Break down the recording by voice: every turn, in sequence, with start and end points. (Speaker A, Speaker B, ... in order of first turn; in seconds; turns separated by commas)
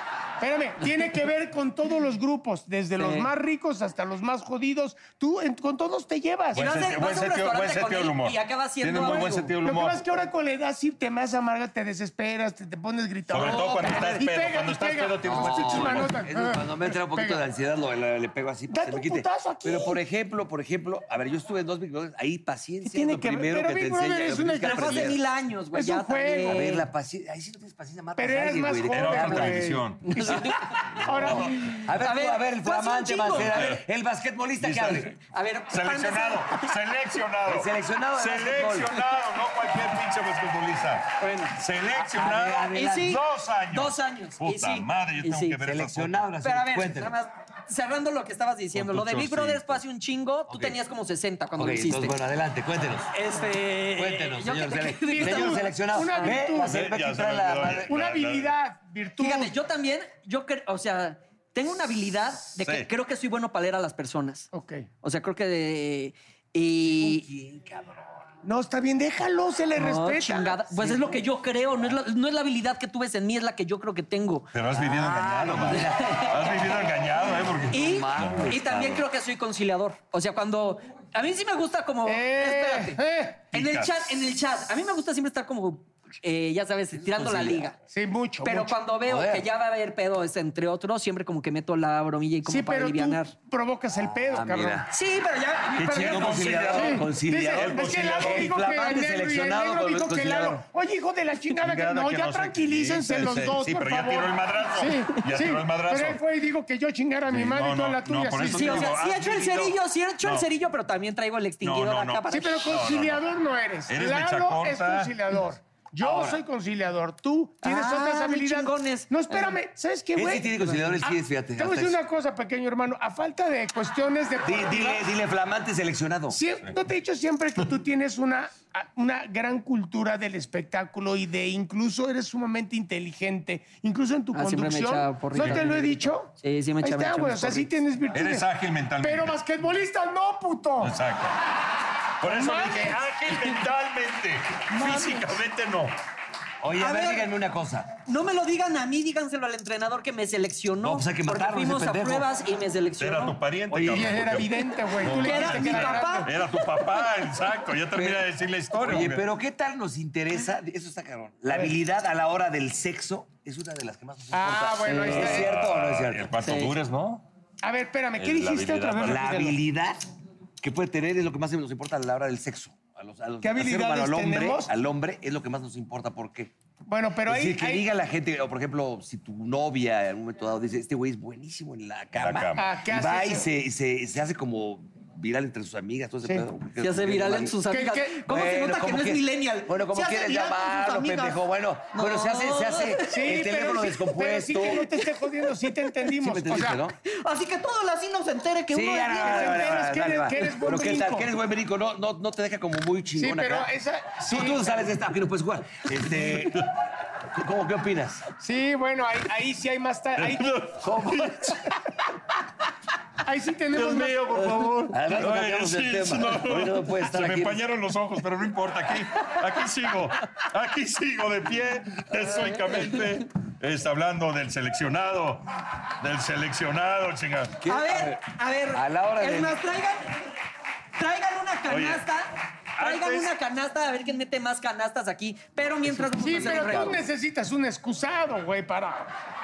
Speaker A: 0.4-6.7, Speaker B: 3.0-3.3, Speaker B: 6.5-9.5, Speaker C: 6.5-10.0, Speaker A: 9.0-17.4, Speaker C: 13.3-16.1, Speaker D: 13.4-14.1, Speaker D: 15.2-25.2, Speaker A: 18.7-20.0, Speaker A: 22.8-25.2, Speaker B: 24.6-26.9, Speaker A: 25.7-26.7, Speaker D: 26.4-29.7, Speaker A: 28.2-31.9, Speaker C: 28.9-30.1, Speaker B: 30.1-30.8, Speaker C: 31.0-31.5, Speaker D: 31.1-35.1, Speaker B: 31.9-33.6, Speaker C: 33.3-33.8, Speaker C: 34.6-35.1, Speaker B: 35.2-36.7, Speaker C: 35.7-46.2, Speaker D: 37.5-39.0, Speaker B: 41.2-41.5, Speaker D: 42.0-43.2, Speaker B: 42.7-45.5, Speaker D: 45.6-47.1, Speaker B: 46.4-52.2, Speaker C: 48.7-49.8, Speaker D: 50.5-50.7, Speaker D: 51.6-53.1, Speaker B: 53.1-56.4, Speaker D: 53.9-57.9, Speaker A: 55.1-56.8, Speaker C: 56.6-58.5, Speaker A: 57.9-59.5, Speaker B: 59.2-64.5, Speaker C: 62.6-62.9, Speaker A: 64.5-64.9, Speaker B: 65.0-67.3, Speaker D: 66.9-68.1, Speaker A: 68.4-70.6, Speaker B: 69.7-74.5, Speaker D: 70.8-71.2, Speaker C: 74.5-78.5, Speaker D: 74.7-76.5, Speaker B: 75.8-76.5, Speaker D: 77.6-79.0, Speaker B: 77.7-83.0, Speaker A: 82.0-83.4, Speaker B: 83.5-87.7, Speaker C: 83.5-84.1, Speaker D: 87.0-87.7, Speaker A: 87.9-88.7, Speaker B: 88.4-93.3, Speaker D: 89.0-89.5, Speaker A: 92.5-94.9, Speaker D: 94.0-94.9, Speaker B: 94.9-96.8, Speaker C: 95.8-98.5, Speaker D: 95.8-100.6, Speaker A: 96.7-108.9, Speaker C: 101.6-106.2, Speaker C: 107.3-110.5, Speaker B: 108.5-112.7, Speaker C: 111.6-113.2, Speaker A: 112.3-125.1, Speaker C: 113.9-115.1, Speaker B: 117.6-119.6, Speaker D: 120.1-122.0, Speaker D: 124.4-126.4, Speaker A: 126.3-138.4, Speaker B: 134.3-137.7, Speaker C: 135.4-135.6, Speaker C: 138.1-139.4, Speaker A: 139.0-140.9, Speaker C: 140.8-141.4, Speaker C: 142.2-145.9, Speaker A: 142.2-143.0, Speaker A: 144.8-145.2, Speaker D: 146.6-147.9, Speaker B: 146.8-147.2, Speaker B: 148.1-153.3, Speaker D: 150.8-152.3, Speaker C: 153.0-159.2, Speaker D: 153.7-154.3, Speaker A: 153.8-156.3, Speaker B: 155.2-156.6, Speaker D: 157.9-166.2, Speaker A: 161.5-161.8, Speaker A: 164.3-165.5, Speaker C: 165.1-167.2, Speaker B: 166.4-166.7, Speaker A: 167.6-169.6, Speaker C: 168.2-169.3, Speaker D: 169.0-170.0, Speaker D: 170.6-176.5, Speaker A: 173.4-174.7, Speaker A: 176.9-177.9, Speaker D: 177.2-187.6, Speaker C: 182.2-182.6, Speaker A: 182.6-183.5, Speaker B: 186.8-191.4, Speaker A: 187.7-188.2, Speaker D: 188.3-194.9, Speaker B: 191.9-193.3, Speaker A: 193.1-196.8, Speaker D: 196.2-196.9, Speaker B: 197.1-199.6, Speaker D: 198.7-203.7, Speaker A: 199.1-201.3, Speaker A: 203.2-204.8, Speaker D: 204.2-206.7, Speaker C: 206.2-206.6, Speaker D: 207.3-208.3, Speaker A: 208.4-210.5, Speaker C: 210.2-211.6, Speaker D: 210.8-211.5, Speaker A: 213.2-214.4, Speaker C: 213.7-225.4, Speaker D: 214.9-217.6, Speaker C: 226.0-227.6, Speaker D: 227.6-228.2, Speaker B: 227.7-230.2, Speaker D: 228.7-229.6, Speaker B: 231.0-237.0, Speaker C: 231.7-232.0, Speaker C: 232.8-233.3, Speaker D: 235.8-237.0, Speaker A: 236.2-239.1